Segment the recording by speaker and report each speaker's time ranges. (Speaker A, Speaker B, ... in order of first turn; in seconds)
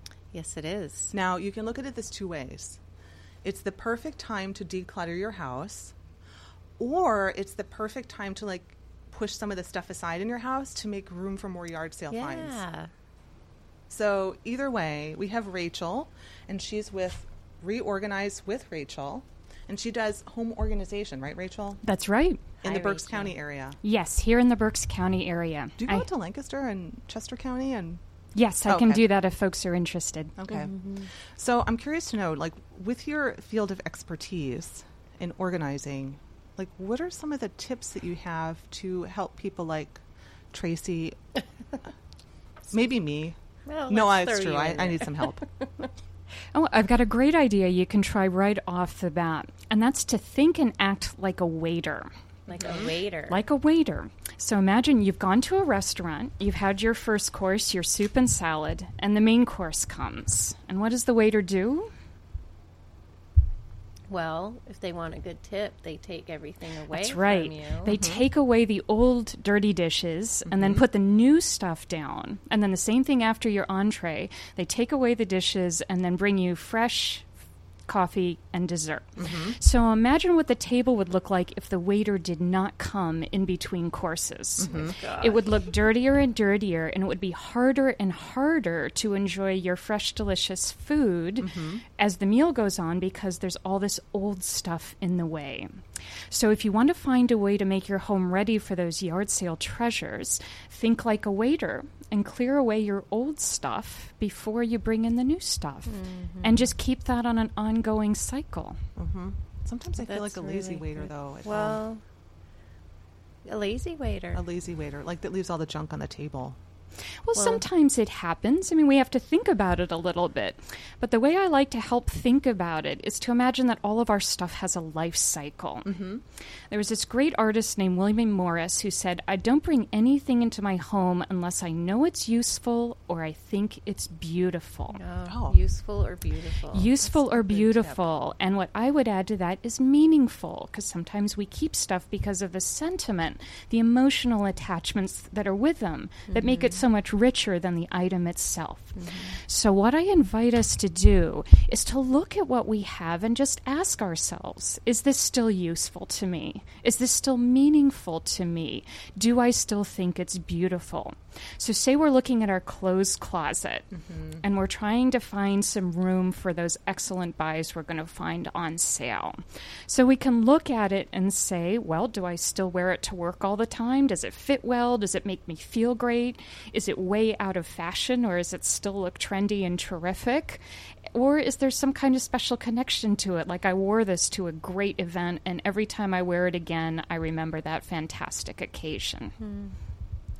Speaker A: 0.3-1.1, 12.1-12.9, 22.6-23.4, 30.5-31.1, 43.6-45.9, 52.5-53.4, 64.1-68.0, 84.6-85.7, 105.9-106.7, 110.0-112.0, 113.4-114.4, 117.3-117.6, 134.9-137.0, 146.3-146.8, 148.9-149.3, 189.4-189.8
Speaker B: 1.1-2.8, 3.4-5.9, 6.8-12.6, 13.9-21.8, 22.6-23.8, 25.8-28.0, 28.6-29.0, 30.4-41.4, 42.7-43.4, 43.9-45.4, 52.6-52.9, 67.9-68.2, 70.5-70.8, 79.2-79.6, 84.6-85.0, 91.4-91.8, 109.0-111.8, 114.3-116.6, 125.8-126.2, 135.3-135.6, 137.0-138.1, 163.9-164.4
Speaker C: 21.8-22.5, 23.8-26.1, 28.3-30.4, 46.5-52.1, 52.8-61.9, 66.9-77.2, 77.9-95.7, 96.3-108.8, 117.2-126.0, 126.7-135.0, 136.7-163.9, 164.4-169.3, 169.9-180.6, 181.1-189.3